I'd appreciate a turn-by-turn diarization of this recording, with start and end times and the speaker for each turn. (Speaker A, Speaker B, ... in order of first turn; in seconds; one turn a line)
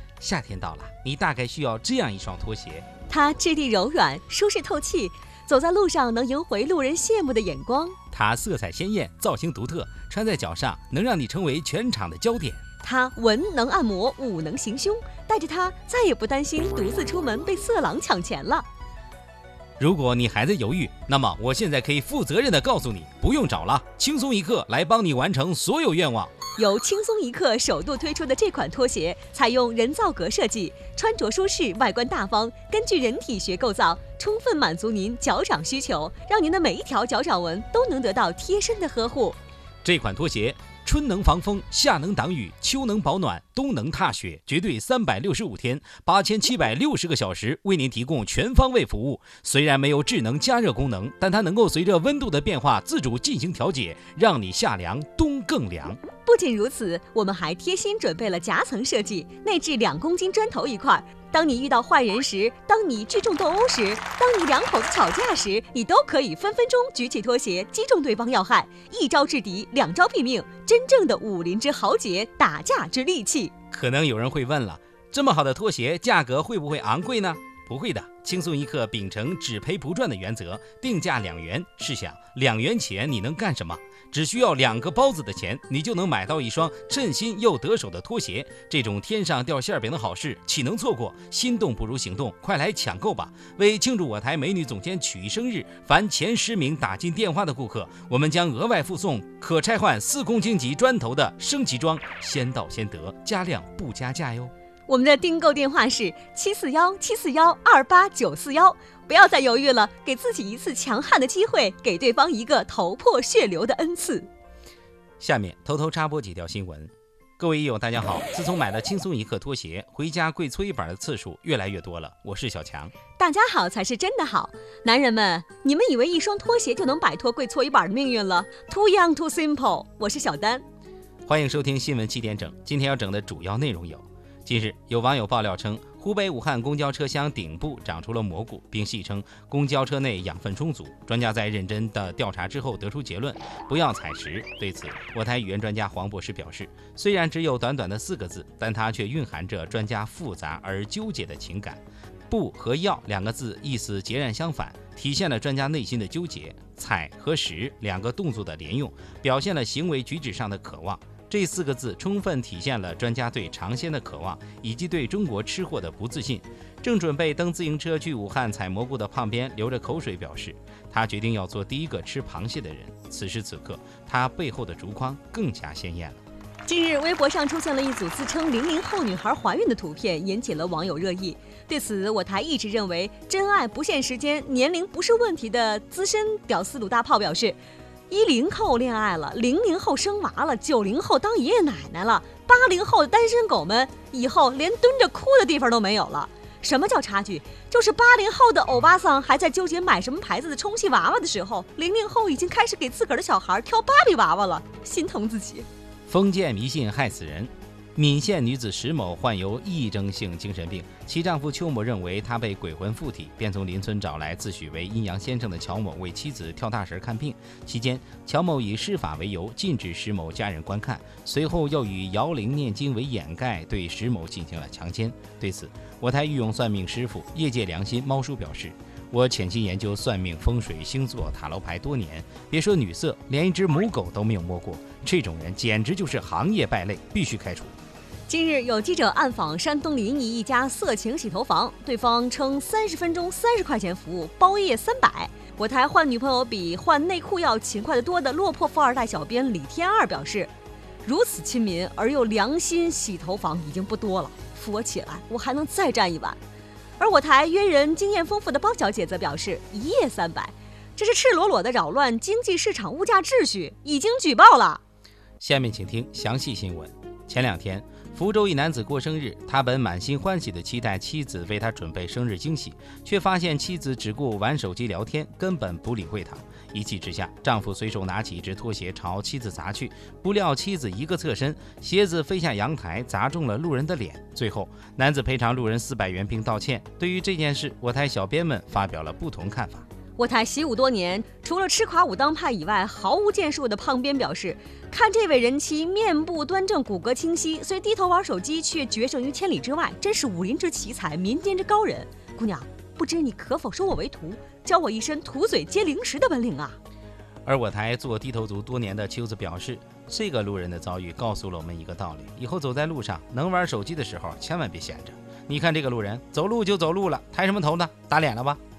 Speaker A: 0.2-2.9
Speaker B: 3.1-8.0
Speaker A: 8.1-12.6
Speaker B: 12.8-18.7
Speaker A: 19.8-26.3
Speaker B: 26.6-39.4
Speaker A: 39.8-56.0
Speaker B: 56.2-73.5
Speaker A: 73.7-104.5
Speaker B: 104.9-114.3
Speaker A: 115.2-122.9
Speaker B: 123.2-130.6
Speaker A: 131.2-176.2
Speaker B: 176.7-187.6
Speaker B: 188.1-205.7
Speaker A: 206.1-237.7
Speaker B: 238.3-250.5
Speaker B: 251.0-256.4
Speaker B: 257.0-264.8
Speaker A: 265.4-289.8
Speaker B: 290.2-306.8
Speaker A: 307.4-318.6